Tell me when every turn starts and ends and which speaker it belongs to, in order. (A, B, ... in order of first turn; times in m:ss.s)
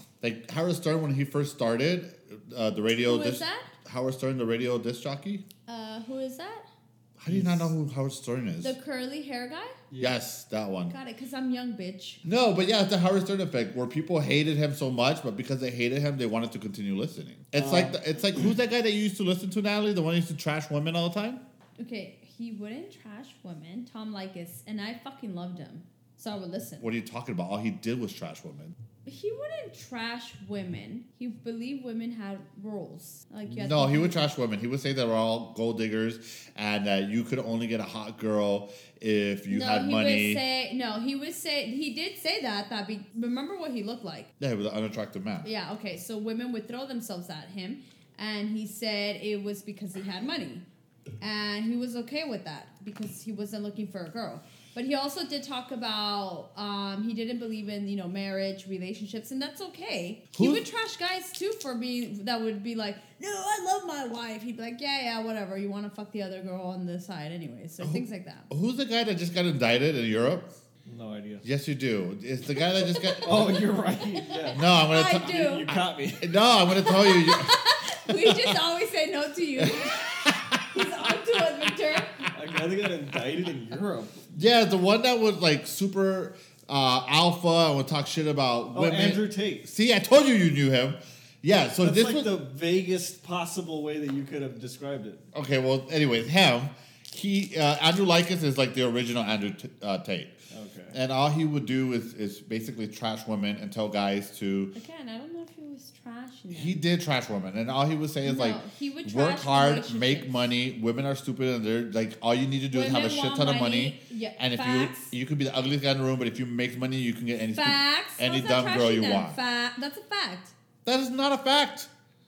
0:00.2-0:05.4 A
0:03.0-0:03.7 B
0:05.7-0:06.7 B
0:07.2-0:08.8 A
0:07.3-0:07.7 C
0:08.6-0:09.7 B
0:09.9-0:10.2 C
0:10.0-0:10.9 A
0:10.9-0:12.2 B
0:12.2-0:21.4 A
0:17.6-0:18.0 C
0:21.8-0:26.9 B
0:26.8-0:28.7 A
0:29.0-0:34.2 B
0:33.5-0:40.4 A
0:39.5-0:44.3 B
0:44.4-0:45.5 A
0:45.4-0:50.7 B
0:51.2-1:08.5 B
1:00.3-1:00.7 A
1:07.8-1:10.5 A
1:10.9-1:11.4 C
1:11.4-1:13.5 A
1:12.6-1:13.3 B
1:13.2-1:16.3 C
1:14.3-1:15.7 B
1:14.5-1:15.4 A
1:16.2-1:17.5 A
1:16.7-1:20.1 B
1:18.2-1:18.5 A
1:19.6-1:20.5 A
1:20.6-1:22.2 B
1:22.3-1:24.2 C
1:24.4-1:32.3 A
1:28.7-1:29.7 C
1:31.8-1:35.2 C
1:35.3-1:40.4 A
1:40.5-1:41.0 C
1:40.9-1:44.7 A
1:44.8-1:46.8 B
1:46.5-1:59.4 A
1:48.2-1:50.5 B
1:52.7-1:55.1 B
1:57.5-2:00.5 B
2:00.8-2:01.9 A